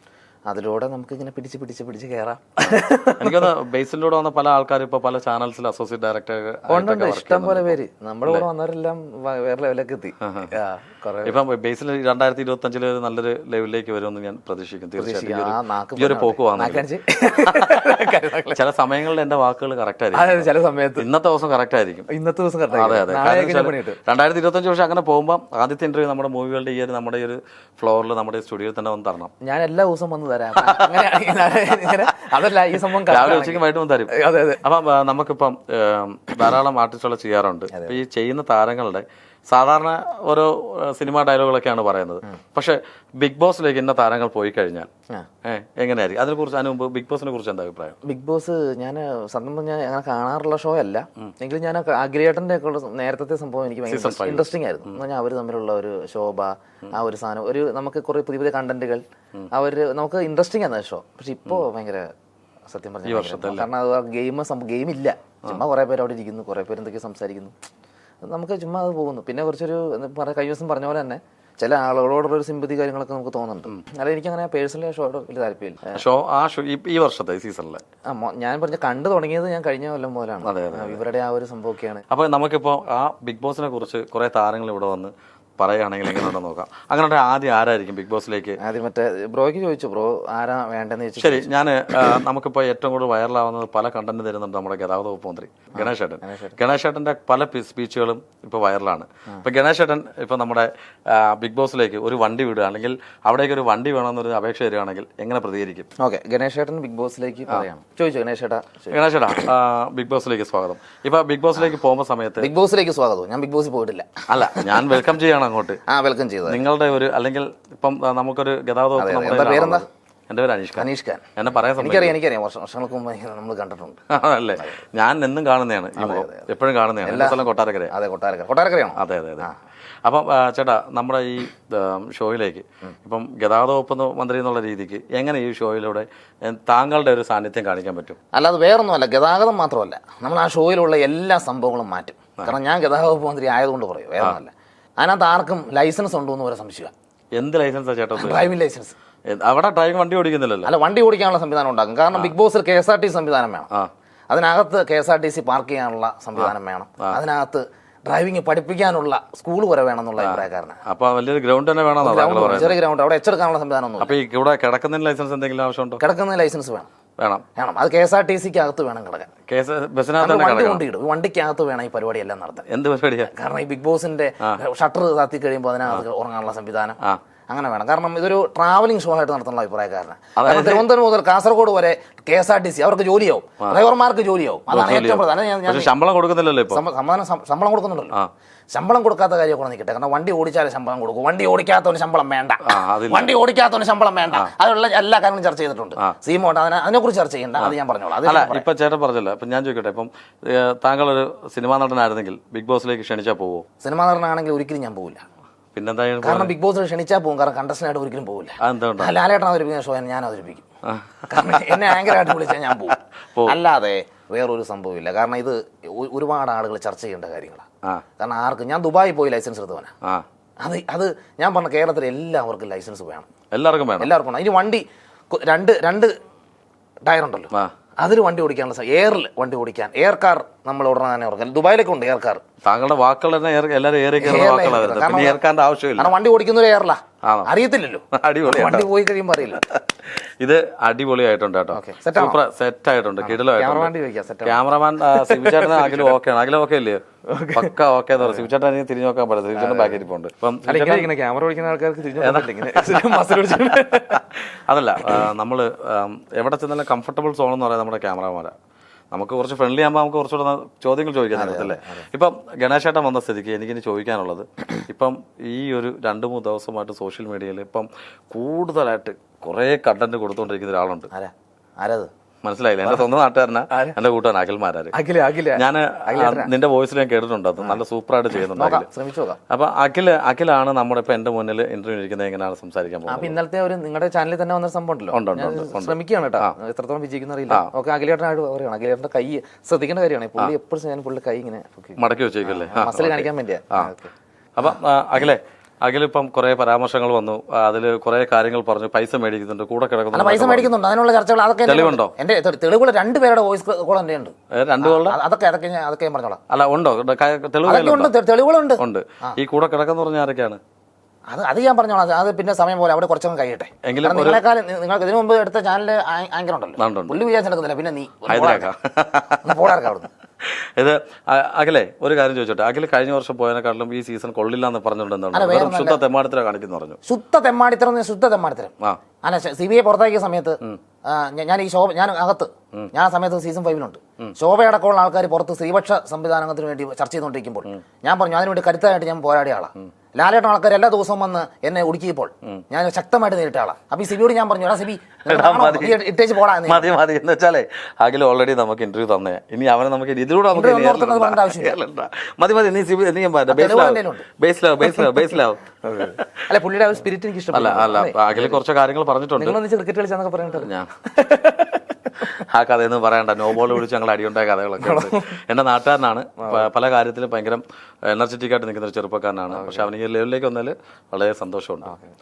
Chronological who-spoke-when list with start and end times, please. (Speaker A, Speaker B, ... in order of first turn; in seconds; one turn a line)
Speaker A: 0.5-3.5
Speaker B: 2.7-8.4
Speaker A: 6.7-11.3
Speaker B: 10.2-10.5
Speaker B: 11.2-16.9
Speaker A: 15.0-18.6
Speaker B: 17.4-22.1
Speaker A: 20.1-21.1
Speaker A: 22.1-24.0
Speaker B: 22.7-29.3
Speaker A: 29.4-34.6
Speaker B: 30.6-32.3
Speaker B: 32.9-44.9
Speaker A: 37.7-38.0
Speaker B: 45.4-48.0
Speaker A: 48.0-62.1
Speaker B: 53.9-55.0
Speaker A: 62.7-67.5
Speaker B: 63.0-63.7
Speaker A: 68.2-76.0
Speaker B: 75.9-77.8
Speaker A: 78.0-82.0
Speaker B: 80.4-81.0
Speaker B: 82.1-88.6
Speaker A: 88.6-91.5
Speaker B: 91.2-105.9
Speaker A: 95.7-96.5
Speaker A: 106.0-109.0
Speaker B: 108.9-112.5
Speaker A: 112.4-114.9
Speaker B: 114.3-115.8
Speaker A: 115.9-116.6
Speaker B: 116.5-122.2
Speaker A: 119.0-119.9
Speaker A: 120.8-124.0
Speaker B: 124.1-127.9
Speaker A: 126.0-126.5
Speaker A: 127.0-129.5
Speaker B: 129.0-129.5
Speaker B: 130.0-138.2
Speaker A: 138.3-146.9
Speaker B: 147.3-148.5
Speaker A: 148.2-148.9
Speaker B: 149.3-150.7
Speaker A: 150.6-153.7
Speaker A: 154.3-160.8
Speaker B: 156.4-157.2
Speaker B: 160.2-162.8
Speaker A: 162.0-164.1
Speaker B: 164.0-166.0
Speaker A: 166.0-166.9
Speaker B: 167.2-167.4
Speaker A: 167.5-169.3
Speaker B: 169.5-170.8
Speaker A: 170.2-172.7
Speaker B: 172.7-173.3
Speaker A: 173.3-177.0
Speaker A: 177.5-185.9
Speaker B: 180.3-180.9
Speaker B: 184.7-186.8
Speaker A: 186.7-188.2
Speaker A: 188.7-198.7
Speaker B: 192.6-193.3
Speaker B: 197.6-203.7
Speaker A: 203.8-205.2
Speaker B: 205.7-206.5
Speaker A: 206.2-210.7
Speaker B: 208.6-209.1
Speaker B: 210.8-212.2
Speaker A: 211.3-217.7
Speaker A: 218.2-219.9
Speaker A: 220.6-223.3
Speaker B: 223.5-224.1
Speaker A: 224.0-226.2
Speaker A: 227.0-232.4
Speaker B: 232.6-236.1
Speaker A: 234.2-235.4
Speaker A: 236.0-239.6
Speaker B: 237.2-237.5
Speaker B: 238.1-238.9
Speaker B: 239.5-243.9
Speaker A: 241.7-242.4
Speaker A: 243.2-246.1
Speaker B: 244.4-251.1
Speaker A: 247.3-248.5
Speaker A: 249.5-250.0
Speaker A: 250.7-254.2
Speaker B: 252.2-258.5
Speaker B: 259.1-271.1
Speaker A: 261.3-262.1
Speaker A: 271.1-272.1
Speaker B: 272.4-274.9
Speaker A: 273.7-274.0
Speaker A: 274.9-276.5
Speaker B: 275.5-278.9
Speaker A: 278.5-279.4
Speaker B: 279.5-283.4
Speaker A: 283.1-294.1
Speaker B: 285.1-286.5
Speaker B: 292.0-293.9
Speaker B: 294.6-300.7
Speaker A: 300.1-306.4
Speaker B: 301.6-302.1
Speaker B: 304.5-305.2
Speaker B: 306.5-308.1
Speaker A: 307.6-309.4
Speaker B: 308.8-310.6
Speaker A: 311.3-318.7
Speaker B: 313.8-314.4
Speaker B: 316.8-317.2
Speaker B: 318.3-319.8
Speaker A: 319.4-320.1
Speaker B: 320.4-326.9
Speaker A: 325.3-326.0
Speaker A: 327.1-346.9
Speaker B: 345.3-346.0
Speaker B: 346.6-356.4
Speaker A: 350.5-351.8
Speaker A: 353.5-354.3
Speaker A: 355.8-358.6
Speaker B: 357.5-359.6
Speaker A: 359.4-361.8
Speaker B: 360.5-360.9
Speaker B: 362.2-371.9
Speaker A: 364.8-365.4
Speaker A: 369.5-369.9
Speaker A: 371.9-372.1